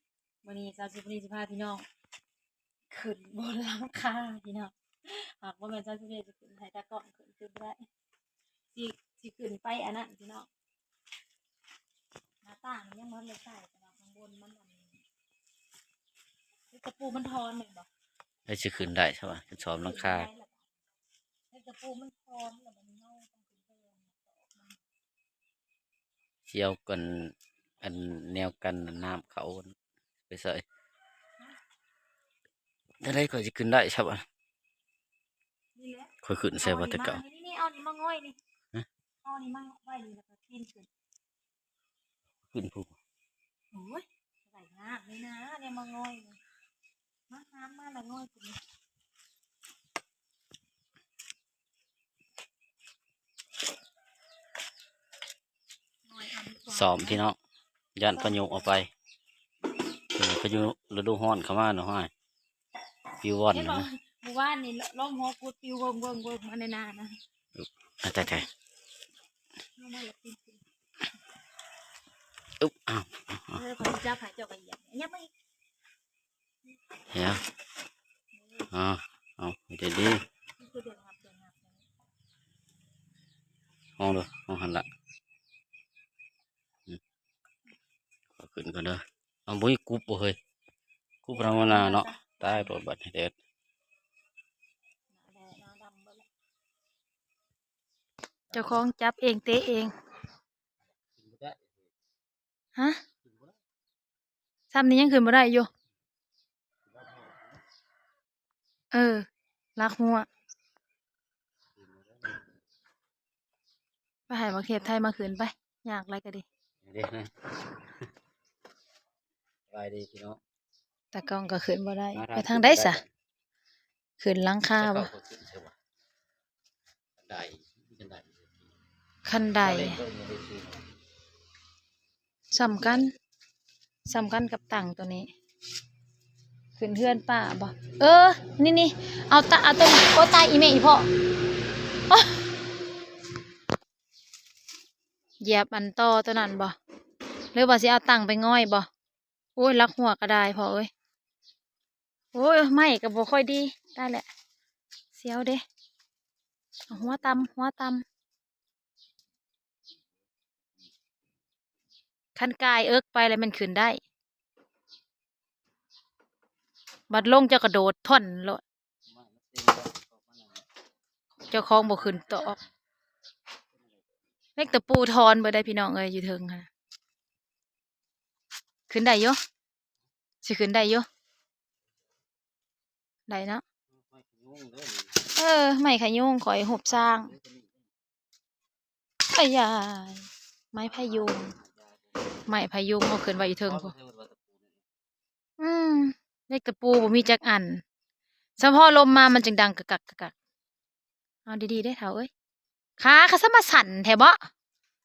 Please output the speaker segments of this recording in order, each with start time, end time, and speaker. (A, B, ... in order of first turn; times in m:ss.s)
0:00.4-0:01.8 A
0:02.9-0:07.8 A
0:08.8-0:10.5 A
0:12.4-0:14.9 A
0:16.7-0:17.9 A
0:18.5-0:20.3 B
0:19.8-0:20.6 A
0:21.5-0:24.7 A
0:26.5-0:29.7 B
0:30.3-0:30.6 B
0:33.0-0:34.2 B
0:35.8-0:38.4 A
0:36.2-0:37.2 B
0:39.2-0:40.9 A
0:42.5-0:42.9 B
0:43.7-0:46.4 A
0:47.3-0:48.6 A
0:56.1-0:57.2 A
0:56.7-0:57.4 B
0:58.0-0:58.9 B
0:58.1-0:58.7 A
1:00.2-1:02.1 B
1:03.2-1:03.8 B
1:03.5-1:07.2 A
1:07.6-1:08.4 B
1:09.8-1:10.6 A
1:12.6-1:13.6 B
1:13.5-1:15.3 A
1:17.1-1:17.4 B
1:18.7-1:20.2 B
1:20.6-1:21.7 A
1:24.0-1:24.8 B
1:28.4-1:30.4 B
1:31.2-1:33.3 B
1:31.3-1:32.8 A
1:35.1-1:36.2 A
1:38.5-1:38.8 B
1:38.5-1:39.9 A
1:41.2-1:41.8 B
1:43.2-1:43.5 B
1:44.7-1:45.7 A
1:47.0-1:47.4 B
1:48.9-1:49.2 A
1:49.8-1:50.3 A
1:51.8-1:52.4 B
1:54.3-1:56.4 A
1:56.8-1:57.3 B
1:59.7-2:00.4 B
2:01.1-2:03.0 A
2:02.1-2:03.0 B
2:04.2-2:05.1 A
2:04.8-2:05.7 B
2:07.2-2:08.5 B
2:09.2-2:10.0 A
2:09.6-2:10.8 B
2:12.5-2:13.1 A
2:14.0-2:15.3 A
2:16.8-2:21.1 A
2:22.1-2:22.4 A
2:25.4-2:26.7 A
2:27.5-2:28.9 A
2:29.6-2:30.9 A
2:32.3-2:34.2 A
2:35.1-2:35.6 A
2:36.9-2:38.0 A
2:42.4-2:44.0 A
2:47.1-2:48.6 A
2:49.1-2:50.6 B
2:51.5-2:52.6 A
2:54.6-2:56.7 A
2:58.9-2:59.4 A
3:00.4-3:01.0 A
3:03.3-3:03.6 A
3:04.0-3:05.1 B
3:05.3-3:07.3 A
3:07.3-3:07.7 B
3:09.3-3:11.5 A
3:12.5-3:13.9 A
3:13.6-3:14.8 B
3:15.6-3:17.8 A
3:18.6-3:20.3 A
3:21.4-3:22.3 A
3:23.0-3:24.5 A